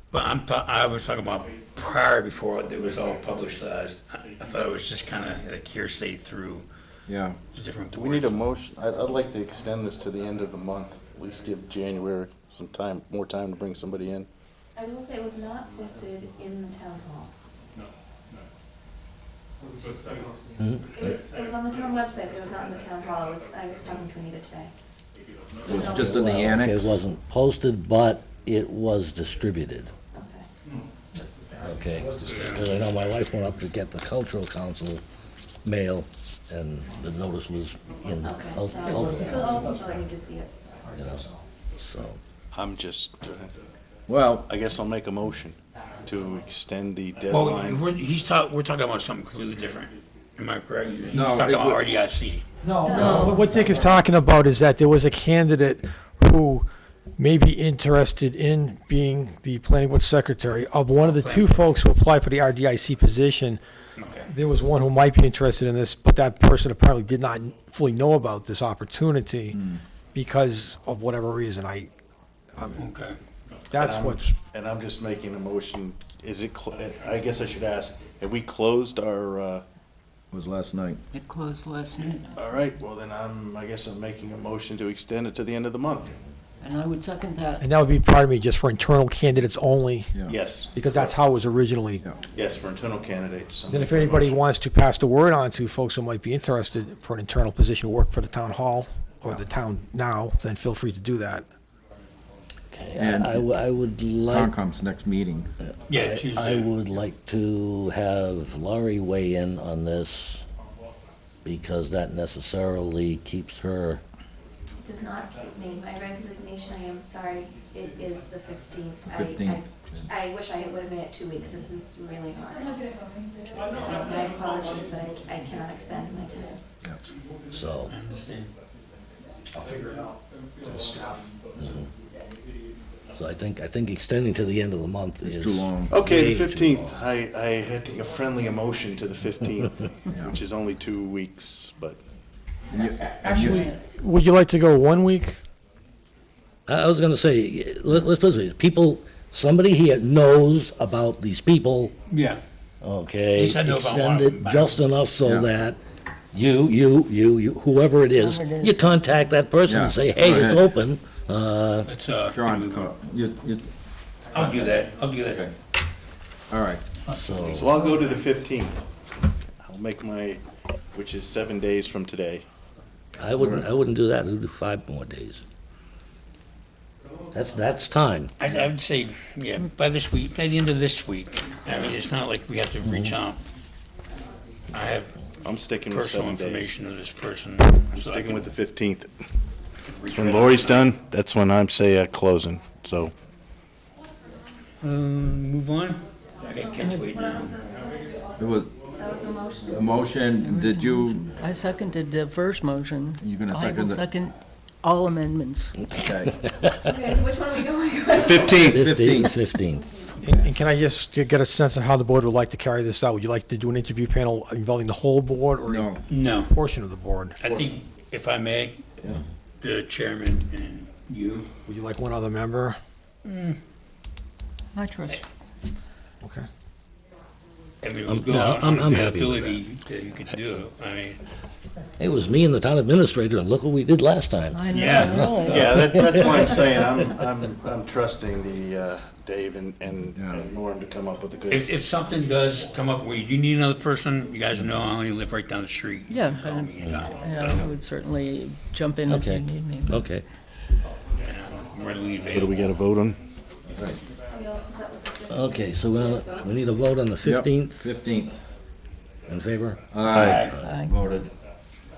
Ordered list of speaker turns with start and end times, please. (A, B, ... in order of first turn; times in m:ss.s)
0:00.1-0:06.7 A
0:07.1-0:07.4 B
0:07.5-0:08.4 A
0:07.9-0:14.3 C
0:14.8-0:17.3 D
0:21.0-0:24.7 D
0:25.6-0:27.0 B
0:25.6-0:26.5 D
0:26.0-0:29.9 E
0:30.1-0:30.5 D
0:31.1-0:32.6 F
0:31.6-0:35.0 E
0:32.3-0:32.7 A
0:35.6-0:39.5 E
0:38.2-0:40.5 D
0:38.8-0:40.0 F
0:40.8-0:41.4 F
0:41.0-0:41.2 E
0:41.8-0:42.2 E
0:42.5-0:43.5 C
0:44.1-0:44.5 B
0:44.4-0:47.8 C
0:47.3-0:52.4 A
0:51.1-0:51.8 B
0:52.6-0:56.6 F
0:52.8-0:53.2 D
0:52.9-0:53.4 G
0:57.2-1:03.6 F
1:01.0-1:01.5 A
1:04.0-1:04.3 A
1:04.3-1:09.6 F
1:10.1-1:11.9 F
1:12.6-1:12.8 F
1:12.8-1:13.2 A
1:13.7-1:14.4 F
1:13.7-1:19.6 C
1:20.3-1:21.0 B
1:21.1-1:22.3 G
1:22.3-1:26.2 C
1:26.6-1:27.6 G
1:27.6-1:30.1 F
1:30.3-1:31.1 C
1:30.7-1:32.0 F
1:32.2-1:34.4 C
1:33.7-1:41.4 F
1:42.7-1:44.5 E
1:43.0-1:43.5 B
1:44.3-1:45.5 B
1:45.9-1:46.7 A
1:45.9-1:50.4 E
1:51.4-1:54.0 E
1:54.8-2:02.9 D
1:59.1-2:00.1 B
2:03.7-2:06.6 D
2:07.5-2:07.9 E
2:07.9-2:08.5 A
2:09.5-2:11.2 F
2:11.6-2:11.9 E
2:13.1-2:17.0 E
2:15.2-2:16.0 B
2:15.9-2:22.0 C
2:20.1-2:20.3 B
2:22.7-2:23.7 B
2:22.8-2:25.4 F
2:26.7-2:31.9 E
2:32.1-2:32.4 A
2:32.8-2:35.8 E
2:33.3-2:34.8 A
2:35.2-2:35.5 B
2:36.3-2:41.9 E
2:38.1-2:39.0 G
2:39.6-2:40.7 B
2:41.8-2:42.9 A
2:42.3-2:43.7 B
2:44.3-2:45.4 A
2:44.3-2:44.7 B
2:45.3-2:45.5 B
2:46.5-2:46.8 B
2:47.1-2:48.0 A
2:47.1-2:47.8 E
2:47.4-2:48.8 C
2:49.6-2:50.4 C
2:50.9-2:52.4 C
2:53.2-2:55.4 E
2:53.4-2:53.6 B
2:57.3-2:58.3 E
2:58.4-3:03.4 A
3:04.7-3:05.2 A
3:05.4-3:06.7 C
3:05.9-3:08.5 A
3:07.9-3:09.1 C
3:09.8-3:10.9 A
3:10.0-3:13.1 C
3:14.8-3:17.6 A
3:16.8-3:17.2 G
3:17.2-3:17.7 D
3:18.4-3:18.7 B
3:18.9-3:19.9 D
3:19.7-3:21.3 B
3:20.4-3:25.8 G
3:23.2-3:24.1 B
3:25.8-3:26.4 B
3:26.5-3:26.9 E
3:26.8-3:28.7 D
3:28.1-3:28.9 C
3:28.6-3:30.0 E
3:28.8-3:29.3 B
3:30.2-3:37.4 F
3:35.6-3:36.0 B
3:36.1-3:36.5 A
3:37.4-3:38.8 A
3:37.4-3:37.7 B
3:39.6-3:41.5 A
3:41.6-3:42.8 F
3:43.2-3:43.6 A
3:44.7-3:45.2 G
3:46.2-3:46.5 F
3:47.8-3:51.2 A
3:48.1-3:49.6 E
3:52.0-3:56.4 E
3:54.5-3:56.5 G
3:54.7-3:55.7 A
3:55.4-4:01.7 C
4:00.2-4:00.4 B
4:01.5-4:07.7 A
4:06.1-4:10.0 G
4:06.8-4:07.1 E
4:09.0-4:10.2 E
4:11.2-4:12.6 A
4:12.3-4:13.2 C
4:14.3-4:16.4 D
4:15.3-4:18.0 E
4:17.2-4:18.4 B
4:19.3-4:20.8 E
4:19.9-4:21.3 B
4:20.1-4:20.5 A
4:20.6-4:21.0 G